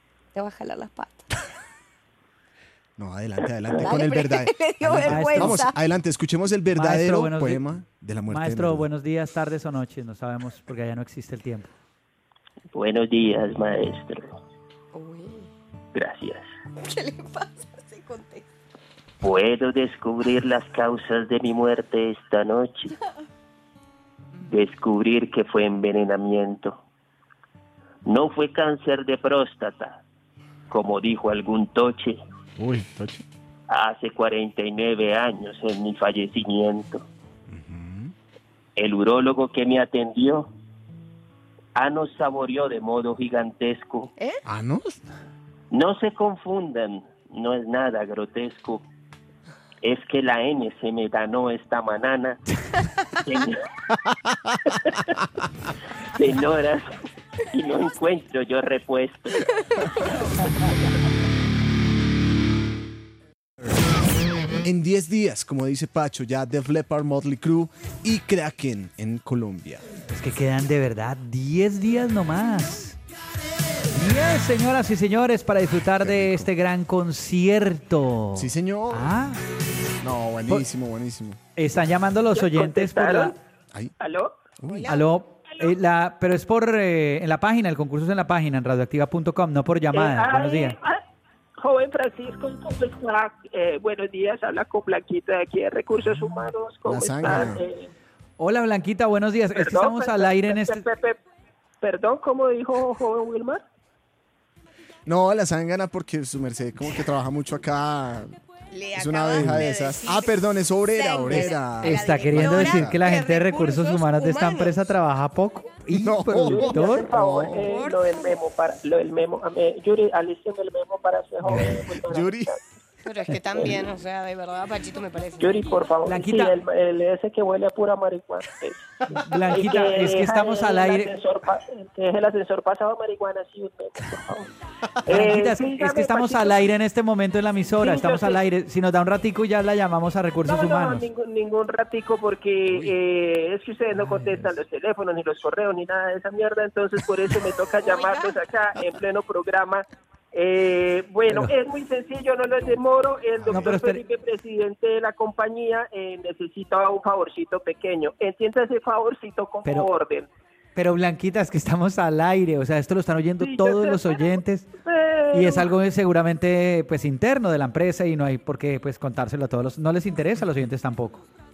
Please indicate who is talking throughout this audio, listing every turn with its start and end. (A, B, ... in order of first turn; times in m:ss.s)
0:00.3-0:01.3 A
0:03.0-0:08.9 B
0:03.7-0:05.8 A
0:05.0-0:05.7 C
0:06.7-0:07.6 C
0:08.3-0:11.7 C
0:12.7-0:14.4 D
0:14.9-0:15.5 A
0:15.9-0:16.4 D
0:16.8-0:18.4 A
0:19.2-0:22.9 D
0:24.4-0:26.8 D
0:28.0-0:30.0 D
0:30.7-0:32.2 D
0:32.6-0:33.2 B
0:33.7-0:37.0 D
0:37.5-0:38.1 B
0:38.8-0:40.5 D
0:41.7-0:44.1 D
0:44.4-0:45.0 B
0:45.7-0:48.8 D
0:49.8-0:52.4 D
0:53.2-0:53.6 D
0:56.1-0:56.9 D
0:57.5-0:59.4 D
1:04.6-1:09.8 B
1:10.1-1:13.0 C
1:13.9-1:19.4 C
1:16.0-1:16.5 B
1:18.4-1:19.1 B
1:20.0-1:21.4 B
1:21.6-1:23.3 C
1:22.3-1:23.4 E
1:24.0-1:24.4 E
1:24.6-1:24.9 B
1:24.7-1:25.1 A
1:24.9-1:30.8 C
1:29.9-1:31.0 E
1:31.6-1:37.9 E
1:36.8-1:37.6 B
1:38.4-1:40.8 C
1:39.6-1:41.2 E
1:41.8-1:43.6 E
1:45.0-1:48.4 B
1:48.7-1:50.3 A
1:48.9-1:53.0 B
1:50.9-1:54.8 A
1:51.8-1:57.1 C
1:55.9-1:57.6 B
1:56.5-2:02.6 E
1:57.5-1:58.3 A
2:02.0-2:02.5 B
2:03.0-2:05.8 A
2:05.4-2:14.5 E
2:06.0-2:06.6 C
2:09.1-2:11.1 C
2:15.0-2:16.7 E
2:15.0-2:21.0 C
2:17.8-2:18.4 E
2:20.4-2:40.3 E
2:23.9-2:24.5 C
2:27.8-2:28.4 A
2:31.3-2:31.5 C
2:33.4-2:33.7 B
2:33.5-2:34.0 C
2:39.6-2:39.9 C
2:40.8-2:44.7 C
2:43.4-2:45.7 E
2:45.3-2:51.2 C